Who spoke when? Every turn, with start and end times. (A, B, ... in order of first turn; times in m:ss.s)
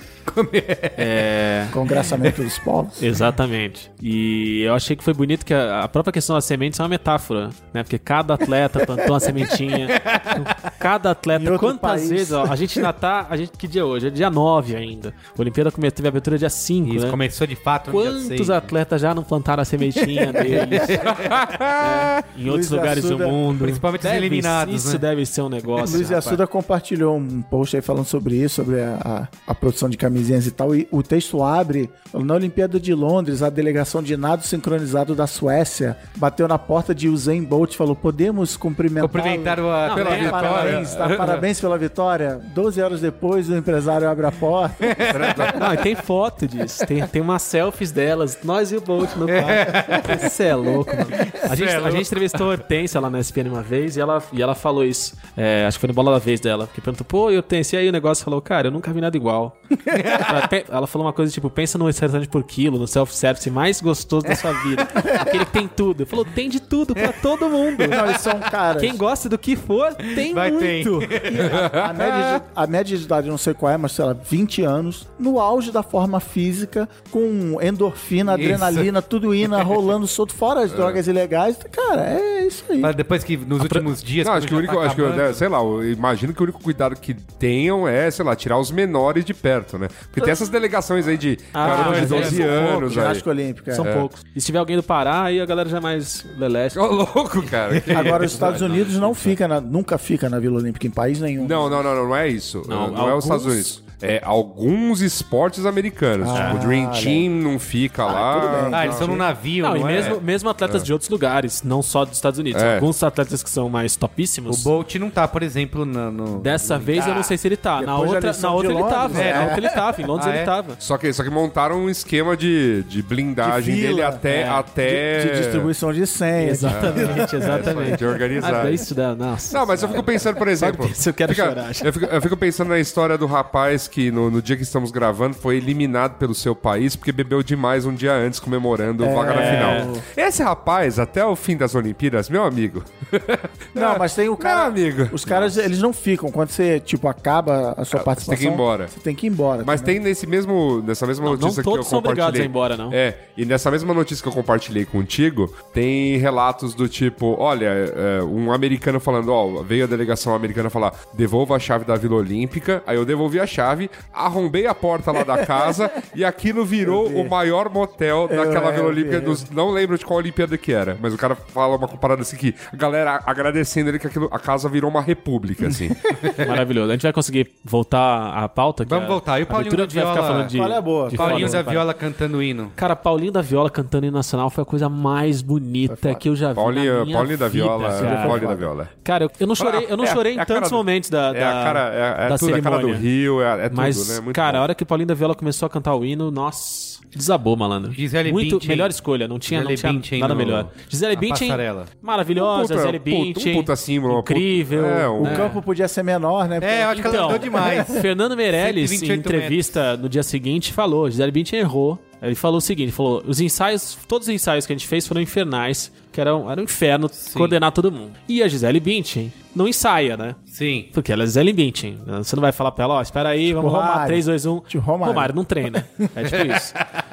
0:00.3-0:01.2 A
0:01.0-0:01.8 B
0:01.7-0:03.0 C
0:03.0-0:17.2 B
0:09.7-0:10.7 A
0:11.3-0:12.6 C
0:16.8-0:18.7 A
0:17.9-0:21.1 B
0:20.0-0:21.4 A
0:21.0-0:22.2 D
0:21.7-0:26.4 B
0:22.4-0:23.4 C
0:23.6-0:25.0 A
0:25.8-0:45.5 C
0:39.0-0:41.4 A
0:39.8-0:40.8 B
0:40.5-0:41.2 D
0:44.8-0:45.6 A
0:45.1-0:45.6 D
0:45.5-1:08.2 B
0:49.3-0:50.3 A
0:51.2-0:52.4 A
0:59.9-1:00.4 A
1:04.3-1:05.2 A
1:07.8-1:09.0 C
1:08.8-1:11.3 B
1:10.2-1:11.6 A
1:11.3-1:22.9 C
1:11.5-1:12.1 D
1:18.3-1:18.9 A
1:19.4-1:19.7 A
1:20.7-1:21.0 D
1:22.8-1:25.4 A
1:23.6-1:23.9 B
1:24.2-1:33.2 D
1:31.5-1:32.8 B
1:31.6-1:32.5 A
1:31.9-1:33.9 C
1:33.7-1:38.8 B
1:33.8-1:34.1 D
1:36.8-1:39.2 D
1:37.9-1:41.9 C
1:41.4-1:49.1 D
1:42.6-1:43.7 B
1:46.2-1:47.3 C
1:46.3-1:46.6 B
1:48.0-1:49.2 C
1:48.7-1:50.2 A
1:49.6-1:54.7 B
1:52.5-1:52.9 D
1:54.5-1:57.3 A
1:56.3-2:00.8 B
1:57.8-1:59.8 C
1:59.1-1:59.6 A
2:00.2-2:00.5 A
2:00.8-2:05.7 D
2:03.4-2:04.2 C
2:04.3-2:04.6 B
2:04.8-2:08.0 C
2:06.4-2:12.1 B
2:06.7-2:08.9 D
2:09.5-2:25.6 D
2:19.0-2:20.0 C
2:19.2-2:20.0 B
2:23.8-2:30.0 C
2:27.9-2:28.9 D
2:29.6-2:56.1 D
2:31.2-2:33.0 B
2:46.8-2:47.4 C
2:48.3-2:49.5 C
2:56.2-2:56.5 A
2:56.4-3:01.8 B
2:58.8-3:00.6 A
3:00.5-3:01.6 C
3:01.1-3:02.7 A
3:02.8-3:13.1 B
3:05.9-3:06.2 C
3:06.6-3:08.9 D
3:08.0-3:08.7 C
3:09.6-3:14.6 D
3:13.7-3:25.6 B
3:17.9-3:18.9 A
3:19.5-3:21.9 A
3:22.4-3:25.5 D
3:25.2-3:28.0 C
3:26.6-3:28.0 A
3:26.9-3:40.4 B
3:28.6-3:29.8 A
3:37.2-3:37.6 A
3:40.5-3:40.9 A
3:40.9-3:46.8 B
3:43.6-3:45.3 C